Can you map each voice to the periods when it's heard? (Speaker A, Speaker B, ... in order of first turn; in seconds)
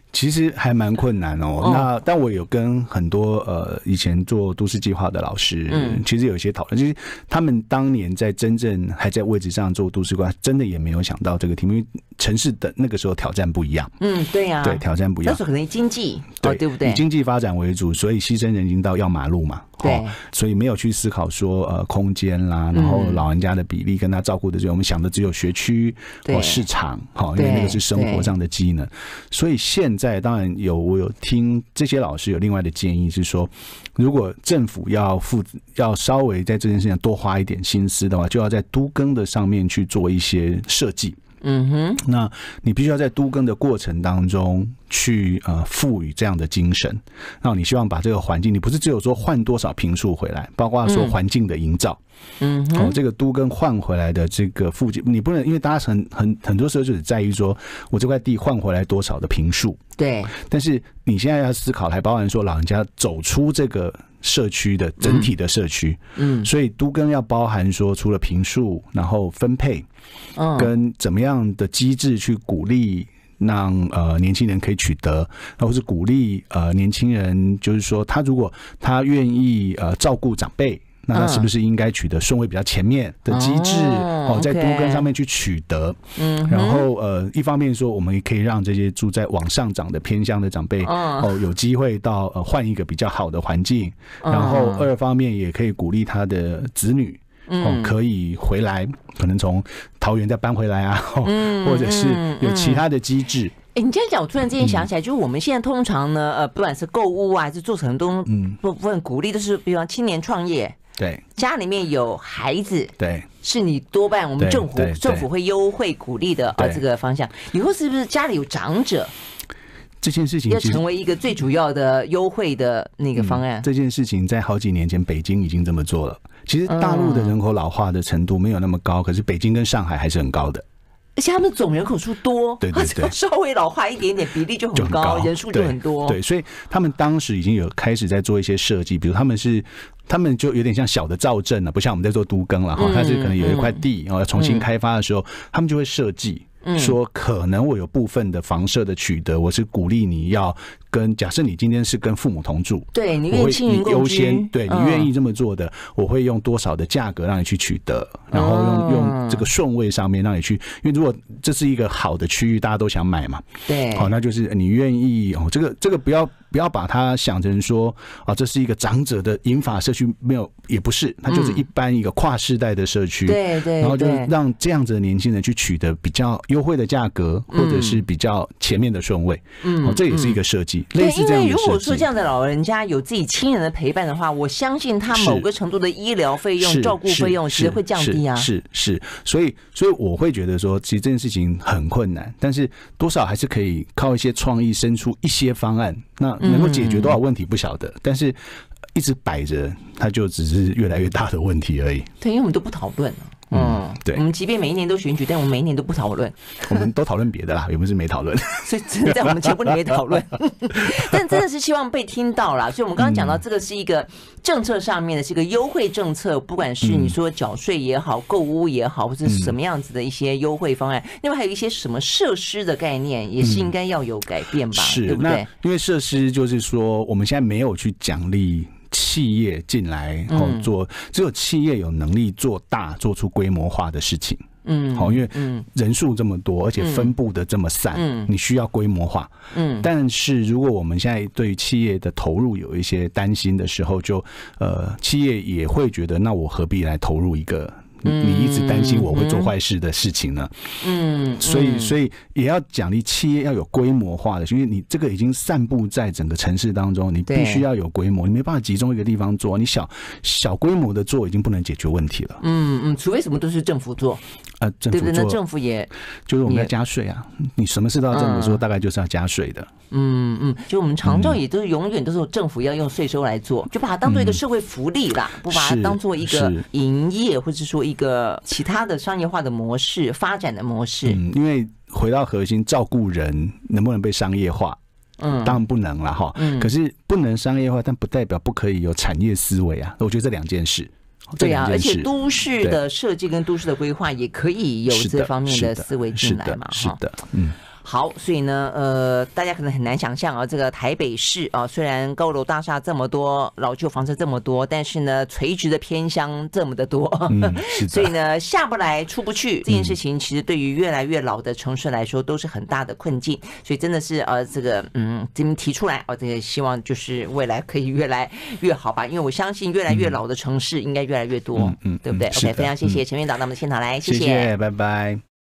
Speaker A: 0.1-13.9, 14.6-15.4, 16.4-41.2, 42.0-52.0, 52.7-59.8, 60.3-69.9, 70.5-103.5, 104.6-104.9, 108.3-108.6, 111.0-111.2, 113.0-113.3, 114.4-115.2, 120.0-120.8, 123.2-130.6, 132.6-133.1, 134.8-182.1, 185.1-185.5, 186.6-198.4, 198.9-202.1, 203.5-204.2, 206.6-209.9, 210.8-211.2, 213.0-213.4, 216.8-217.2, 219.2-219.5, 223.4-223.7, 224.7-250.6, 251.4-262.4, 264.6-265.4, 266.3-269.7, 271.0-271.4, 274.0-274.4, 275.5-276.6, 281.0-284.8, 285.4-292.1, 294.9-297.6, 307.3-308.1, 309.7-309.9, 321.6-323.0, 324.0-325.2
Speaker B: 1.6-1.9, 5.7-6.0, 14.0-17.0, 19.8-20.2, 22.7-23.2, 26.2-26.6, 27.4-28.3, 41.4-42.0, 50.9-51.1, 52.4-53.0, 60.0-60.3, 65.0-65.3, 66.2-66.5, 70.4-70.7, 81.1-81.5, 83.3-85.1, 86.2-86.9, 90.8-91.3, 94.2-94.9, 97.5-98.0, 101.2-102.8, 103.7-110.8, 111.3-119.1, 120.5-123.7, 126.7-127.3, 131.2-136.2, 142.8-143.8, 144.3-144.7, 146.6-146.9, 152.9-155.1, 158.3-159.5, 163.7-164.1, 171.3-171.6, 173.2-174.3, 177.5-178.0, 179.6-180.4, 180.9-188.5, 196.4-197.2, 202.2-206.9, 208.6-225.5, 230.3-230.7, 234.6-235.6, 236.8-237.1, 237.9-238.3, 239.5-239.9, 248.0-249.5, 250.8-251.9, 257.3-257.6, 262.4-264.2, 264.9-265.9, 266.4-266.7, 268.1-268.6, 269.9-281.2, 285.2-285.6, 286.4-286.7, 291.4-297.0, 297.8-324.5